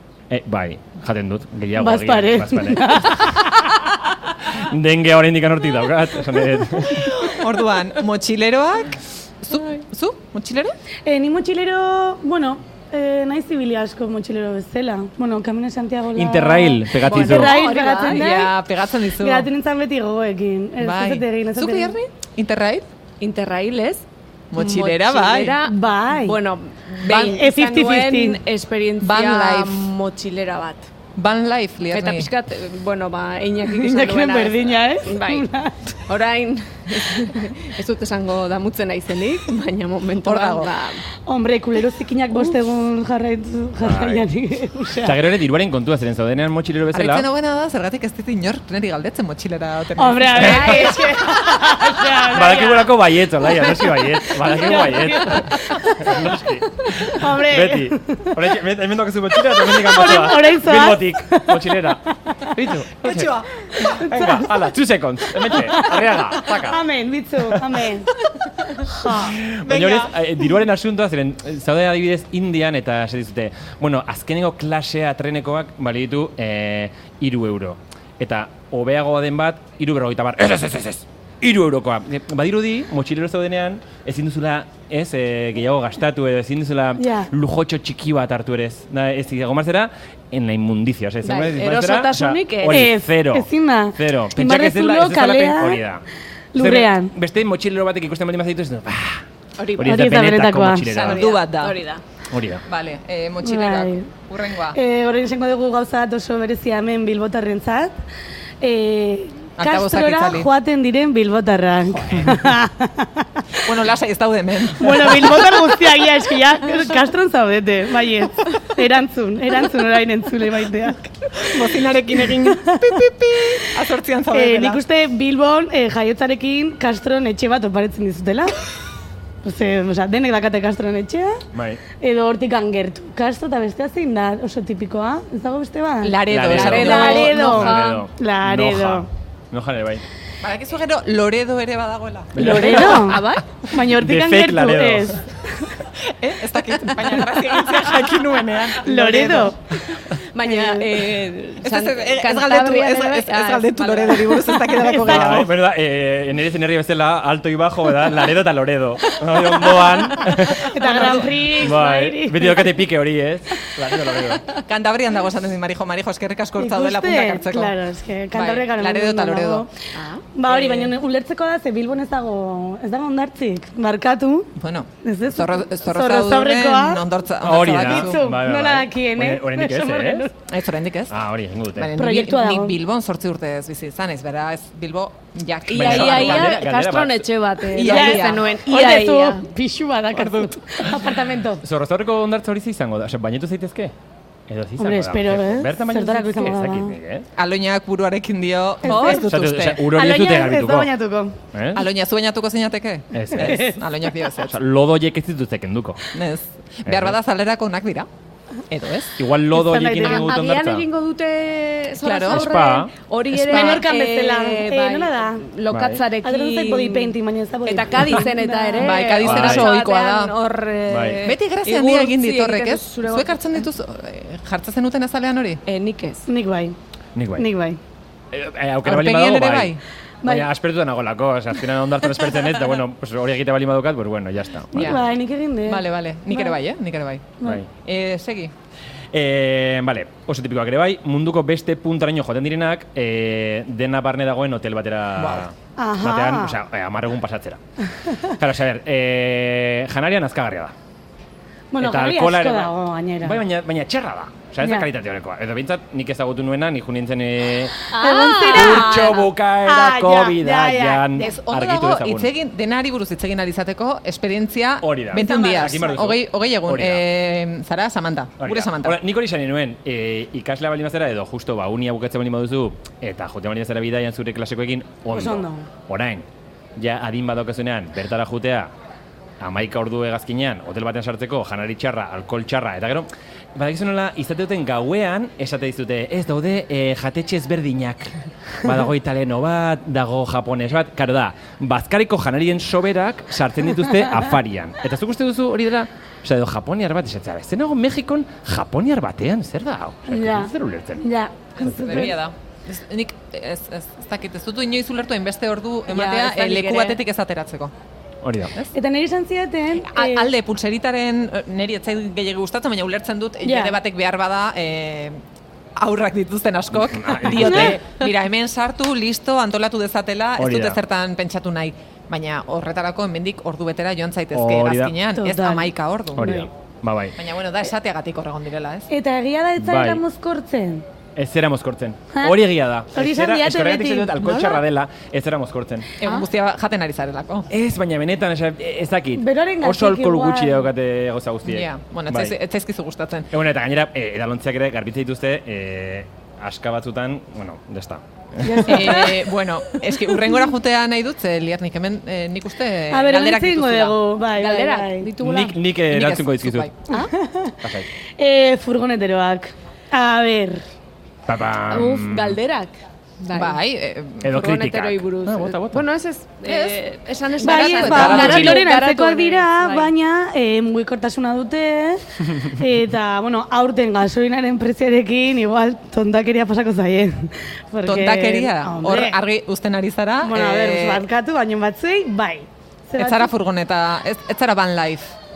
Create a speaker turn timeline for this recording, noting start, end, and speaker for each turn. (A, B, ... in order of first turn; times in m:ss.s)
0:00.3-0:03.6 A
0:01.8-0:03.5 B
0:04.4-0:07.2 A
0:07.2-0:10.8 C
0:11.1-0:18.6 B
0:16.2-0:17.6 A
0:17.0-0:18.4 D
0:18.0-0:19.5 C
0:19.2-0:22.0 B
0:20.8-0:22.9 C
0:23.2-0:30.9 D
0:24.5-0:25.6 C
0:25.6-0:26.4 B
0:27.0-0:27.4 C
0:27.1-0:28.4 B
0:29.0-0:29.8 C
0:31.2-0:32.3 C
0:31.9-0:35.5 D
0:33.7-0:36.0 B
0:36.1-0:41.0 D
0:40.2-0:40.7 C
0:41.3-0:45.2 B
0:43.8-0:44.3 A
0:45.0-0:47.3 A
0:46.9-0:51.1 C
0:50.0-0:56.3 B
0:50.4-0:50.9 A
0:50.5-0:51.0 D
0:52.2-1:06.8 A
0:57.0-0:58.4 B
0:59.4-1:01.9 B
1:03.0-1:04.4 C
1:03.8-1:04.5 B
1:05.5-1:08.1 B
1:07.5-1:07.8 A
1:08.8-1:09.4 B
1:09.1-1:36.0 A
1:09.6-1:10.1 C
1:27.0-1:27.3 B
1:31.2-1:32.9 D
1:32.7-1:35.8 B
1:36.5-1:37.1 B
1:36.6-1:39.2 A
1:39.6-1:40.0 D
1:39.8-1:41.3 A
1:39.8-1:40.9 B
1:40.9-1:42.0 D
1:40.9-1:41.8 C
1:42.3-1:42.6 A
1:42.7-1:44.8 C
1:43.4-1:44.1 B
1:44.7-1:48.0 B
1:48.6-1:53.4 B
1:49.6-1:50.5 C
1:52.0-1:52.5 A
1:53.6-1:55.8 C
1:54.8-2:01.6 B
2:01.4-2:04.8 C
2:02.4-2:03.0 B
2:04.3-2:08.6 B
2:09.4-2:11.4 B
2:11.5-2:11.8 A
2:12.0-2:16.2 B
2:16.0-2:17.4 C
2:16.3-2:20.0 A
2:16.5-2:18.0 D
2:16.7-2:19.1 B
2:20.4-2:23.0 C
2:22.3-2:23.2 A
2:22.4-2:23.4 D
2:22.4-2:25.7 B
2:23.8-2:25.2 A
2:26.0-2:29.6 C
2:28.8-2:29.6 B
2:30.1-2:34.7 D
2:30.4-2:30.9 B
2:31.6-2:35.5 C
2:34.8-2:35.3 B
2:35.0-2:44.4 A
2:40.4-2:42.8 B
2:40.7-2:41.3 C
2:44.5-2:47.8 C
2:46.6-2:49.7 B
2:48.3-2:49.7 C
2:49.9-2:50.2 D
2:50.4-2:54.5 B
2:50.5-2:51.0 C
2:54.6-2:58.2 C
2:55.0-2:57.0 B
2:57.4-3:00.3 A
2:57.7-3:00.3 B
3:00.5-3:01.2 C
3:01.1-3:01.9 A
3:01.8-3:06.6 C
3:02.0-3:02.8 B
3:05.7-3:09.4 D
3:05.7-3:07.3 A
3:07.7-3:08.6 C
3:07.8-3:11.6 B
3:11.6-3:13.9 A
3:14.5-3:17.3 A
3:14.8-3:17.0 B
3:17.4-3:19.8 C
3:18.8-3:19.2 B
3:18.9-3:19.2 D
3:19.1-3:20.9 A
3:19.8-3:21.4 B
3:21.5-3:21.9 A
3:21.8-3:24.6 C
3:23.1-3:23.7 A
3:23.4-3:23.8 B
3:24.5-3:26.0 A
3:26.1-3:28.1 C
3:26.9-3:27.2 A
3:28.7-3:29.2 C
3:29.2-3:30.9 A
3:29.5-3:30.4 B
3:30.0-3:43.6 D
3:32.0-3:32.5 C
3:32.3-3:32.9 A
3:33.3-3:33.8 C
3:33.5-3:35.5 B
3:35.7-3:36.0 A
3:36.2-3:39.0 B
3:38.8-3:40.3 C
3:39.2-3:39.7 A
3:40.9-3:41.2 A
3:41.2-3:45.6 C
3:45.7-3:46.3 D
3:46.3-3:46.8 B
3:47.2-3:47.5 A
3:47.4-3:47.8 B
3:48.3-3:55.0 A
3:48.8-3:49.8 C
3:50.2-3:50.5 B
3:54.7-3:56.6 B
3:54.8-3:55.0 C
3:55.6-3:58.5 C
3:59.1-4:07.6 A
4:05.2-4:05.5 C
4:05.8-4:06.6 B
4:08.3-4:10.7 A
4:11.7-4:13.4 B
4:11.8-4:17.7 A
4:14.6-4:14.9 B
4:17.9-4:21.3 B
4:17.9-4:19.1 D
4:18.5-4:22.3 A
4:21.2-4:29.0 C
4:24.8-4:27.0 A
4:25.2-4:26.0 B
4:28.4-4:38.7 A
4:35.1-4:35.7 B
4:39.4-5:01.0 A
5:00.1-5:02.1 B
5:01.6-5:07.7 C
5:01.7-5:02.1 A
5:05.9-5:07.0 D
5:08.2-5:08.5 A
5:08.7-5:10.3 B
5:09.8-5:15.2 C
5:13.4-5:13.8 B
5:15.8-5:26.3 C
5:16.7-5:17.8 A
5:20.4-5:20.8 A
5:24.3-5:24.9 A
5:25.2-5:26.5 B
5:26.2-5:27.2 A
5:27.2-5:28.9 C
5:28.9-5:30.8 B
5:29.6-5:30.0 A
5:31.2-5:35.9 A
5:32.1-5:32.4 B
5:32.9-5:34.6 B
5:36.0-5:37.5 C
5:37.5-5:42.3 A
5:39.2-5:40.7 B
5:41.5-5:43.3 C
5:43.3-5:49.1 A
5:48.4-5:49.2 B
5:48.7-5:54.0 C
5:52.9-5:55.1 B
5:54.3-5:55.6 D
5:55.2-5:56.7 A
5:55.9-5:56.9 C
5:56.9-5:57.6 B
5:57.6-5:57.9 A
5:58.2-6:00.6 B
6:01.3-6:02.4 A
6:01.7-6:03.6 D
6:03.3-6:04.4 C
6:04.2-6:05.9 A
6:04.3-6:09.9 D
6:06.4-6:08.6 C
6:07.4-6:19.2 B
6:07.9-6:08.6 A
6:17.8-6:21.0 C
6:20.2-6:23.3 B
6:23.0-6:25.1 C